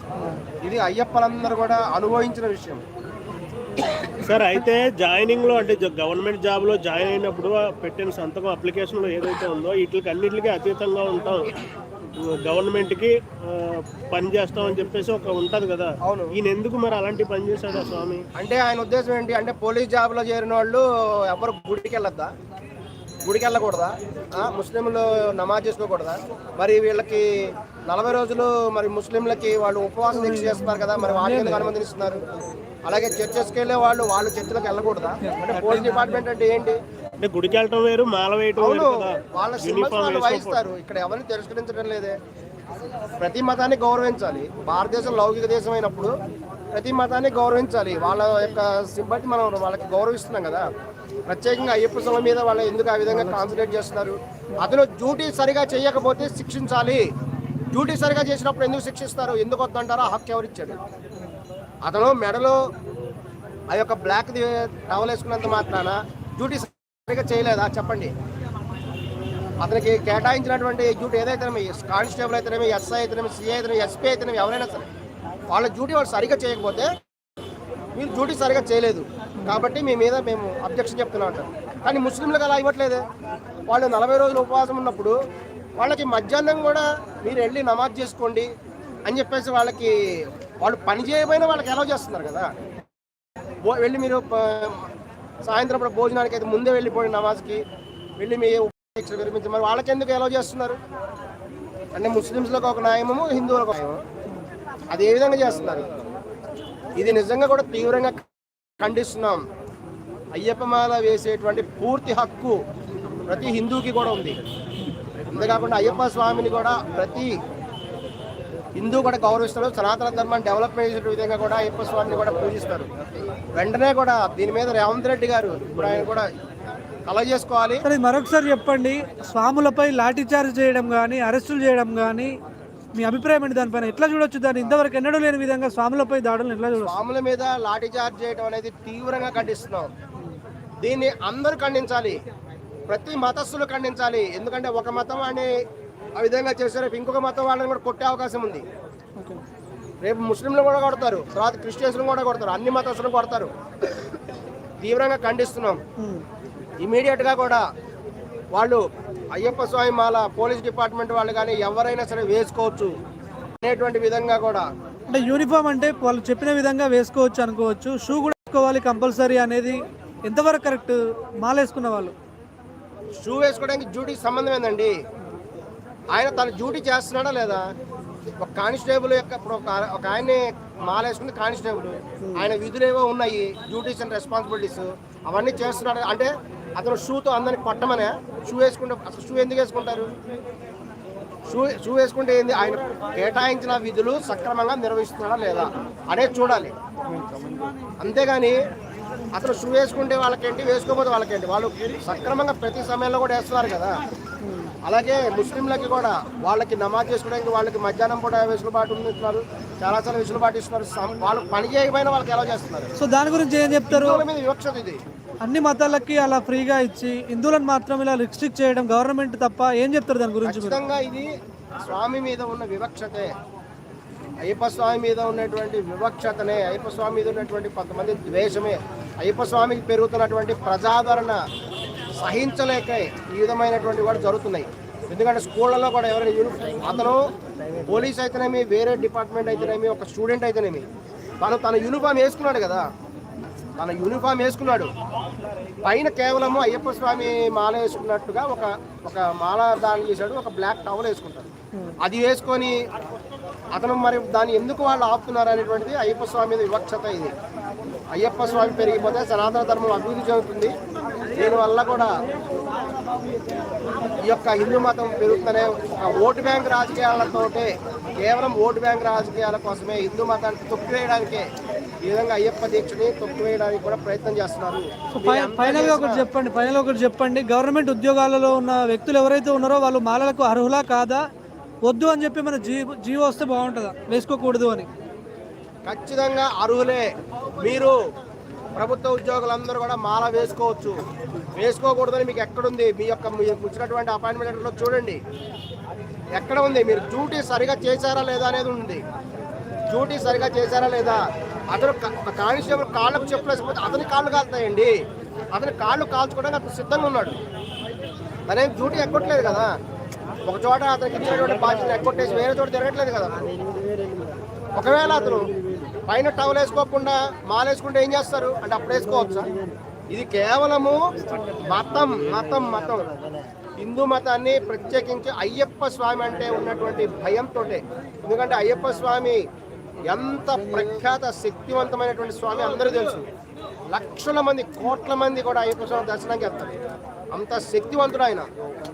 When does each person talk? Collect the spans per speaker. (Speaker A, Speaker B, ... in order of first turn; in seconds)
Speaker A: 0.6-2.8, 16.0-16.4, 18.4-22.3, 23.2-27.3, 27.9-32.2, 32.9-36.8, 38.6-42.2, 43.2-46.1, 46.7-50.7, 51.3-57.0, 57.7-60.8, 61.9-62.6, 63.7-68.1, 69.6-74.9, 75.5-76.9, 78.0-83.0, 83.7-85.2, 85.8-88.5, 89.1-89.9, 90.6-92.6, 93.7-94.9, 95.4-97.6, 98.2-100.8, 101.9-104.0, 104.9-105.9, 107.0-108.3, 108.8-109.4, 110.3-112.6, 113.3-114.4, 115.3-117.4, 118.8-122.9, 123.6-126.3, 127.1-127.8, 136.8-139.9, 140.8-142.2, 142.9-145.5, 146.2-148.6, 150.0-153.5, 154.8-155.8, 156.8-157.6, 158.5-162.9, 163.6-164.7, 173.2-174.9, 176.1-177.7, 178.4-190.1, 191.5-196.7, 198.0-198.6, 199.3-204.0, 204.8-212.9, 213.9-215.0, 220.4-223.3, 224.4-231.4, 232.2-237.2, 237.8-240.9, 241.4-242.8, 243.8-244.9, 245.8-251.5, 252.0-252.8, 253.7-257.3, 258.1-260.7, 261.3-262.1, 264.2-271.5, 272.0-276.2, 285.9-288.0, 288.8-291.0, 291.6-295.2, 296.4-299.0, 299.9-304.9, 305.6-307.4, 308.5-309.7, 310.4-313.6, 314.7-315.5, 316.0-319.5, 320.1-321.0, 321.6-323.2, 323.8-329.4, 330.0-333.3, 333.9-336.8, 337.3-338.5
Speaker B: 4.2-11.5, 12.2-18.2, 37.2-40.6
Speaker C: 30.1-31.7, 35.2-36.2, 127.8-132.3, 132.9-137.0, 156.0-156.2, 165.1-172.1, 182.2-182.5, 204.4-204.7, 213.0-214.2, 215.4-220.8, 275.1-281.2, 281.9-284.9